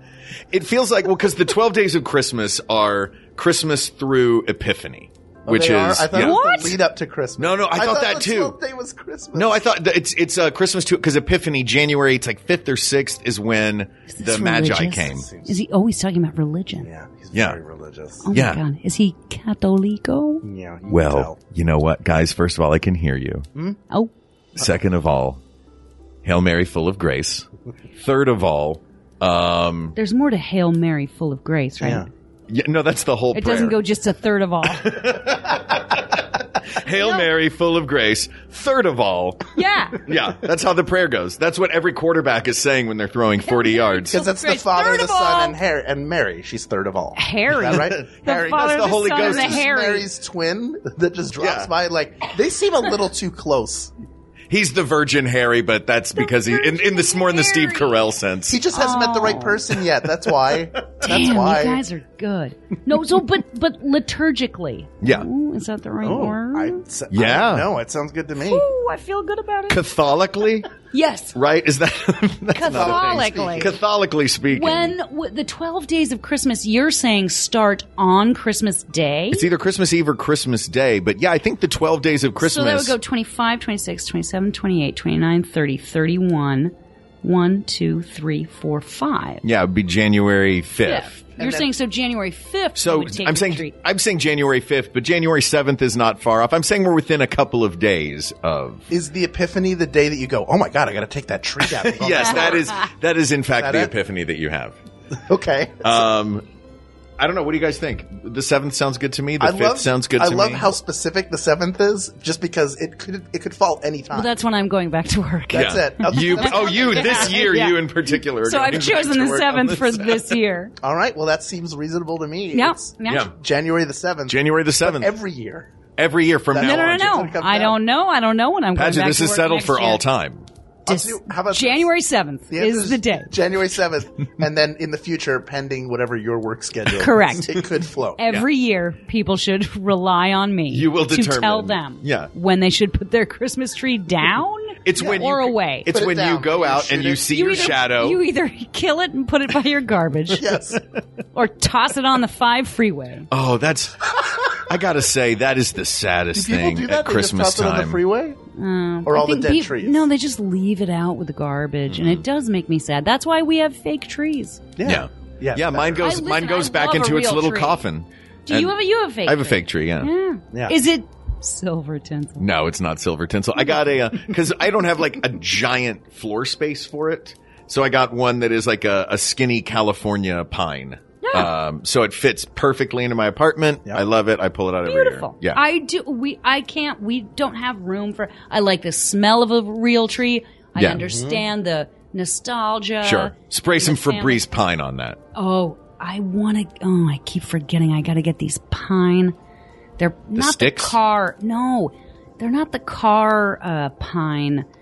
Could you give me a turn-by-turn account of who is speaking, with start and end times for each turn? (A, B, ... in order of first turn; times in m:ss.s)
0:00.5-0:06.4 A
0:05.4-0:09.7 B
0:06.2-0:06.8 C
0:07.4-0:08.6 A
0:09.3-0:15.2 A
0:14.1-0:16.9 C
0:15.0-0:15.6 B
0:16.8-0:18.2 B
0:17.3-0:17.6 A
0:18.2-0:20.4 C
0:18.3-0:18.6 A
0:20.4-0:21.4 B
0:20.9-0:23.4 A
0:23.5-0:23.8 B
0:24.6-0:25.4 A
0:26.2-0:29.9 A
0:30.0-0:32.1 C
0:31.8-0:32.1 B
0:32.5-0:33.8 A
0:33.3-0:34.9 C
0:34.7-0:39.5 A
0:36.8-0:37.2 C
0:39.5-0:40.0 C
0:40.0-0:44.2 A
0:43.4-0:45.6 C
0:44.1-0:53.9 B
0:47.2-0:50.1 C
0:47.6-0:49.6 A
0:51.4-0:51.7 A
0:54.5-0:58.6 A
0:56.2-0:58.1 C
0:58.5-1:01.8 B
0:58.7-0:59.6 C
1:01.0-1:06.8 C
1:05.0-1:05.3 A
1:06.0-1:08.6 B
1:07.1-1:07.7 A
1:08.4-1:09.8 C
1:09.7-1:10.7 A
1:10.9-1:11.4 C
1:11.3-1:15.0 A
1:12.5-1:13.7 C
1:12.6-1:13.8 B
1:14.5-1:19.4 C
1:19.3-1:23.0 A
1:22.4-1:29.4 C
1:29.4-1:31.2 A
1:30.8-1:33.7 C
1:31.4-1:31.7 B
1:32.8-1:38.9 A
1:38.9-1:42.8 B
1:41.7-1:44.8 A
1:43.6-1:43.9 B
1:45.1-1:46.1 B
1:45.8-1:46.4 A
1:47.2-1:50.7 A
1:49.4-1:54.3 B
1:54.1-1:57.8 C
1:55.5-1:57.4 B
1:55.5-2:00.3 A
1:58.4-2:00.7 C
2:00.8-2:05.7 B
2:02.5-2:03.3 C
2:04.3-2:05.1 A
2:06.0-2:07.1 A
2:06.5-2:07.8 B
2:06.6-2:10.0 C
2:08.7-2:10.5 A
2:10.8-2:11.9 B
2:10.9-2:13.3 C
2:12.5-2:18.2 B
2:17.0-2:17.6 C
2:18.2-2:25.9 C
2:20.7-2:22.3 A
2:24.8-2:28.2 A
2:25.0-2:25.3 B
2:25.9-2:27.8 B
2:27.3-2:30.4 C
2:30.3-2:30.8 B
2:31.3-2:33.3 C
2:33.3-2:38.0 A
2:36.3-2:38.4 B
2:38.6-2:44.6 C
2:39.0-2:40.1 B
2:41.9-2:42.2 A
2:44.8-2:46.0 B
2:44.8-2:50.1 A
2:46.0-2:47.8 C
2:48.5-2:52.4 C
2:50.5-2:50.8 B
2:52.4-3:05.6 A
3:01.2-3:01.5 C
3:04.8-3:14.4 C
3:10.8-3:11.0 A
3:10.9-3:11.4 B
3:13.0-3:15.2 A
3:15.3-3:19.3 C
3:20.0-3:24.6 C
3:20.4-3:21.0 A